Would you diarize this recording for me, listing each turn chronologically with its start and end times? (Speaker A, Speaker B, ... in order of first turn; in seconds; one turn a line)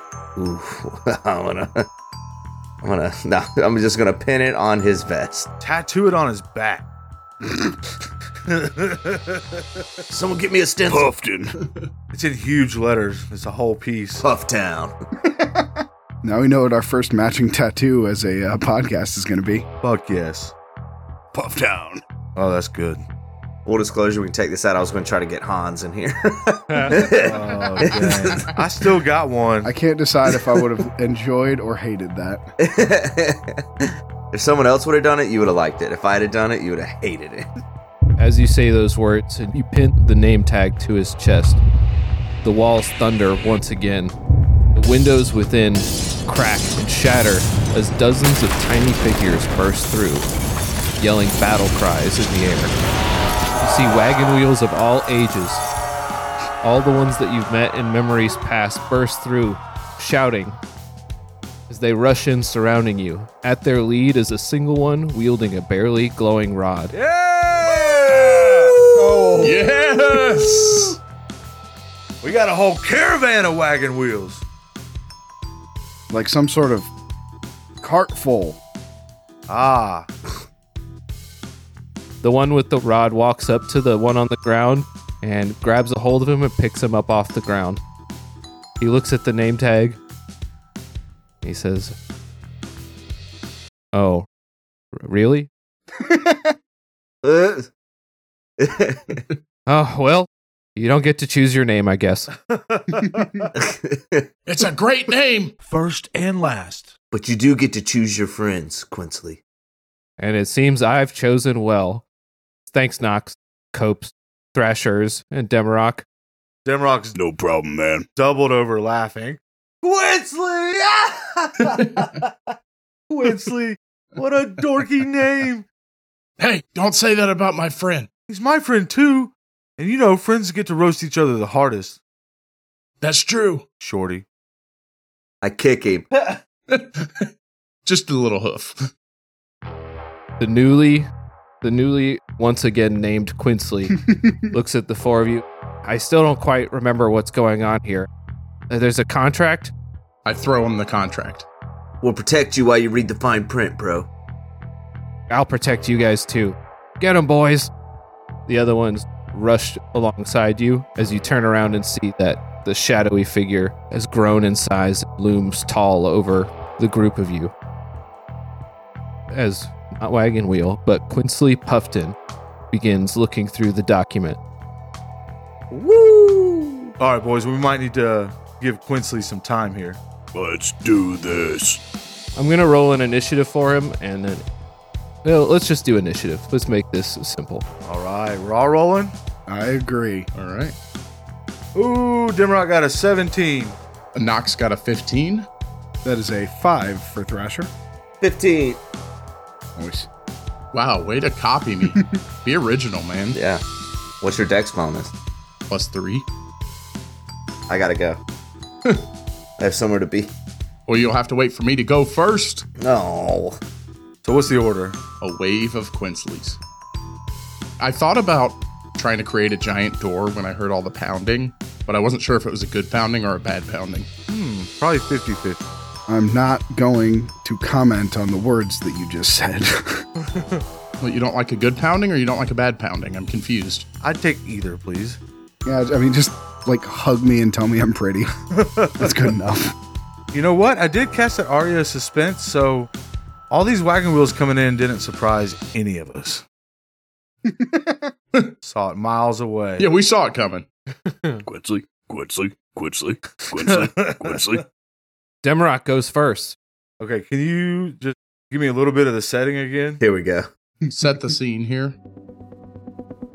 Speaker A: 0.3-1.9
Speaker A: 2.8-5.5
Speaker B: 5.6-6.8
Speaker B: 8.4-9.8
Speaker A: 10.1-11.1
Speaker C: 10.9-11.5
Speaker B: 12.1-14.2
Speaker A: 14.2-14.9
Speaker D: 15.2-19.6
Speaker B: 19.8-20.5
Speaker D: 21.3-22.0
Speaker B: 22.4-23.0
Speaker A: 23.6-28.6
Speaker E: 26.7-27.1
Speaker B: 27.1-29.7
Speaker D: 29.6-32.4
Speaker A: 32.6-37.5
Speaker E: 38.2-41.6
Speaker E: 42.4-44.1
Speaker E: 44.7-50.3
Speaker E: 51.0-52.7
Speaker E: 53.6-55.6
Speaker E: 56.6-60.6
Speaker E: 61.7-66.9
Speaker B: 66.9-68.8
Speaker D: 68.9-69.6
Speaker F: 69.4-71.0
Speaker B: 70.5-70.8
Speaker B: 72.2-74.4
Speaker D: 76.1-76.9
Speaker D: 77.8-78.6
Speaker B: 79.5-80.1
Speaker E: 82.2-87.8
Speaker E: 88.8-90.0
Speaker E: 91.4-91.9
Speaker E: 93.9-94.2
Speaker E: 94.9-95.5
Speaker D: 96.0-96.5
Speaker A: 97.2-97.7
Speaker A: 98.6-99.2
Speaker E: 99.7-102.3
Speaker B: 102.3-103.5
Speaker A: 103.5-104.3
Speaker F: 104.5-105.5
Speaker B: 105.6-106.9
Speaker A: 107.1-109.4
Speaker E: 110.2-112.0
Speaker E: 112.7-116.0
Speaker B: 116.6-117.1
Speaker C: 117.1-118.1
Speaker B: 118.2-122.5
Speaker F: 121.6-122.0
Speaker B: 123.1-125.6
Speaker F: 126.4-128.1
Speaker B: 128.3-132.0
Speaker F: 133.0-133.6
Speaker B: 133.8-134.2
Speaker A: 135.4-136.3
Speaker F: 136.7-137.3
Speaker F: 137.8-138.9
Speaker E: 140.4-141.1
Speaker E: 141.6-148.1
Speaker E: 148.7-149.7
Speaker F: 150.2-151.4
Speaker A: 152.0-154.1
Speaker E: 155.3-157.7
Speaker E: 158.5-167.5
Speaker E: 169.3-172.2
Speaker E: 172.7-174.4
Speaker A: 175.7-176.9
Speaker B: 177.0-180.0
Speaker C: 180.3-181.8
Speaker E: 182.3-184.4
Speaker E: 185.2-187.6
Speaker B: 187.8-189.1
Speaker D: 189.5-190.3
Speaker F: 190.3-190.7
Speaker B: 191.7-193.8
Speaker F: 194.1-195.5
Speaker D: 196.0-197.7
Speaker A: 198.2-198.8
Speaker D: 199.8-200.1
Speaker F: 200.7-203.4
Speaker A: 203.3-203.6
Speaker A: 204.2-205.1
Speaker F: 205.7-206.3
Speaker A: 207.7-208.2
Speaker A: 209.6-210.3
Speaker F: 210.9-212.6
Speaker A: 212.8-213.6
Speaker B: 214.2-215.0
Speaker F: 215.2-216.6
Speaker F: 217.8-224.1
Speaker B: 224.3-225.6
Speaker D: 226.1-230.0
Speaker B: 230.2-230.6
Speaker F: 231.0-233.9
Speaker B: 234.0-235.2
Speaker D: 235.6-238.3
Speaker B: 238.5-239.3
Speaker D: 239.0-239.7
Speaker B: 240.3-242.9
Speaker B: 243.5-246.4
Speaker D: 247.4-248.1
Speaker B: 248.6-249.9
Speaker F: 249.8-250.7
Speaker E: 251.1-251.4
Speaker C: 251.4-254.6
Speaker B: 253.5-254.4
Speaker E: 255.4-256.6
Speaker B: 257.0-260.0
Speaker A: 260.0-260.5
Speaker F: 260.9-261.9